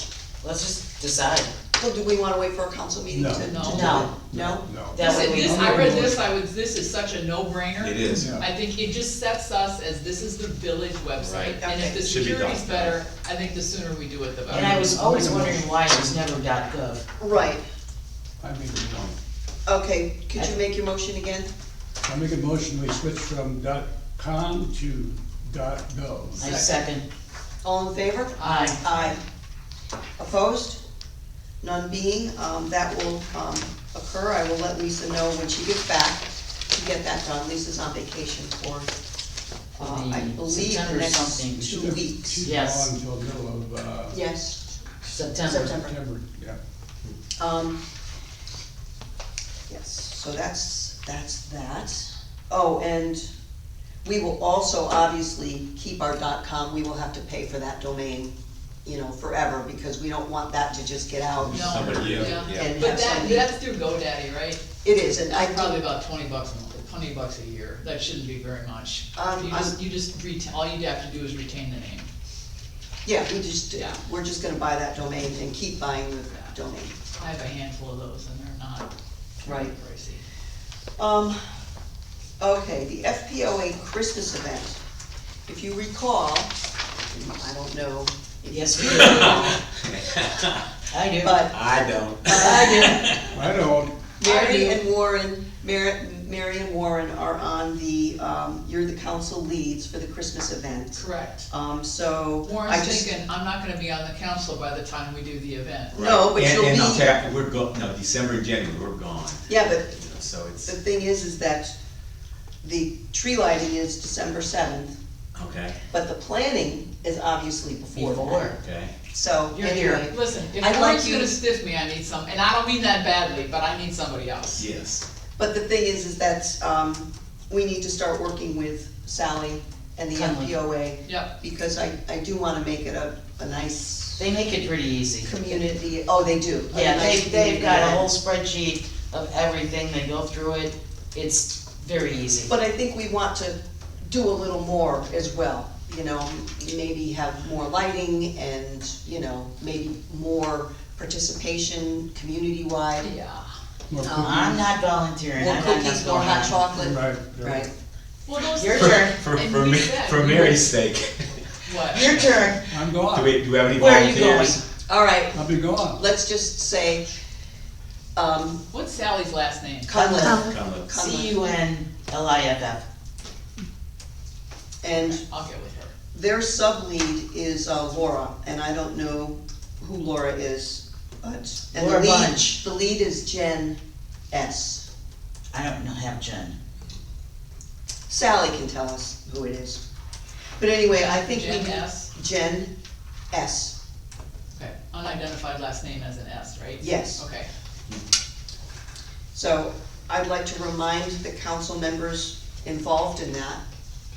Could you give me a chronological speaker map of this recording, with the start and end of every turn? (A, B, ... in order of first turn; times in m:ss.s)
0:00.4-0:01.5 A
0:01.8-0:04.7 B
0:03.1-0:06.2 C
0:03.4-0:04.0 D
0:03.6-0:04.2 A
0:04.9-0:05.7 A
0:05.0-0:14.9 D
0:07.8-0:08.3 E
0:08.1-0:08.5 C
0:11.2-0:13.0 E
0:11.6-0:12.0 B
0:14.5-0:15.7 C
0:14.5-0:17.0 A
0:17.2-0:17.6 B
0:18.4-0:19.2 C
0:19.7-0:21.5 B
0:22.0-0:26.5 C
0:26.4-0:27.0 A
0:26.4-0:26.9 D
0:27.6-0:29.2 B
0:28.4-0:28.8 D
0:28.4-0:28.8 A
0:30.2-0:30.8 B
0:31.6-0:38.9 B
0:39.8-0:42.5 B
0:39.8-0:41.7 A
0:41.5-0:44.2 C
0:42.4-0:42.9 A
0:44.1-0:44.6 B
0:45.0-0:46.6 C
0:45.1-0:45.7 A
0:45.5-0:46.0 B
0:47.4-0:47.8 B
0:49.7-0:53.3 B
0:54.0-0:58.3 B
0:58.8-1:03.5 B
1:01.4-1:02.4 C
1:01.5-1:04.6 D
1:01.6-1:02.8 E
1:04.8-1:05.8 B
1:05.3-1:12.1 D
1:09.2-1:09.8 B
1:13.0-1:17.0 B
1:13.8-1:14.0 D
1:17.2-1:18.9 D
1:19.4-1:20.2 D
1:19.4-1:19.7 B
1:21.0-1:21.4 B
1:22.4-1:24.8 B
1:25.5-1:26.5 B
1:27.1-1:29.6 B
1:28.5-1:29.5 A
1:28.9-1:30.6 E
1:30.9-1:31.4 A
1:31.2-1:31.6 B
1:31.5-1:33.4 E
1:32.2-1:33.2 B
1:32.4-1:33.0 A
1:33.3-1:34.0 C
1:34.2-1:43.1 B
1:34.2-1:34.8 D
1:40.9-1:41.5 D
1:42.4-1:46.0 D
1:45.9-1:50.8 E
1:45.9-1:47.1 B
1:49.5-1:49.9 B
1:50.7-1:51.7 B
1:52.6-1:55.0 B
1:55.4-1:55.8 E
1:55.9-1:58.6 B
1:57.9-1:58.6 A
1:58.6-1:58.9 E
1:59.1-2:01.4 B
1:59.5-2:00.1 A
2:00.1-2:04.7 D
2:04.6-2:05.0 E
2:05.4-2:14.3 B
2:10.1-2:10.6 A
2:11.0-2:11.3 D
2:14.2-2:15.3 A
2:15.2-2:18.1 B
2:16.7-2:22.5 A
2:22.5-2:33.1 B
2:33.0-2:33.5 D
2:33.9-2:34.6 C
2:34.0-2:34.4 B
2:34.2-2:36.6 A
2:35.4-2:37.7 B
2:36.7-2:37.7 C
2:38.3-2:40.7 D
2:38.6-2:39.2 A
2:38.8-2:42.6 E
2:41.7-2:42.2 D
2:41.9-2:42.6 A
2:42.7-2:43.4 C
2:43.1-2:44.6 E
2:43.7-2:44.6 A
2:44.9-2:47.1 B
2:45.3-2:46.0 C
2:48.2-2:48.6 B
2:48.7-2:50.4 D
2:49.9-2:51.4 B
2:50.3-2:51.0 E
2:50.9-2:52.8 A
2:54.8-2:55.2 B
2:54.9-2:55.9 D
2:56.1-3:03.8 B
3:01.7-3:02.6 A
3:04.3-3:04.9 B
3:05.5-3:06.6 A
3:08.1-3:09.8 B
3:10.6-3:12.7 B
3:11.0-3:12.1 D
3:13.3-3:13.8 B
3:14.5-3:17.5 D
3:16.8-3:17.2 B
3:19.3-3:23.6 B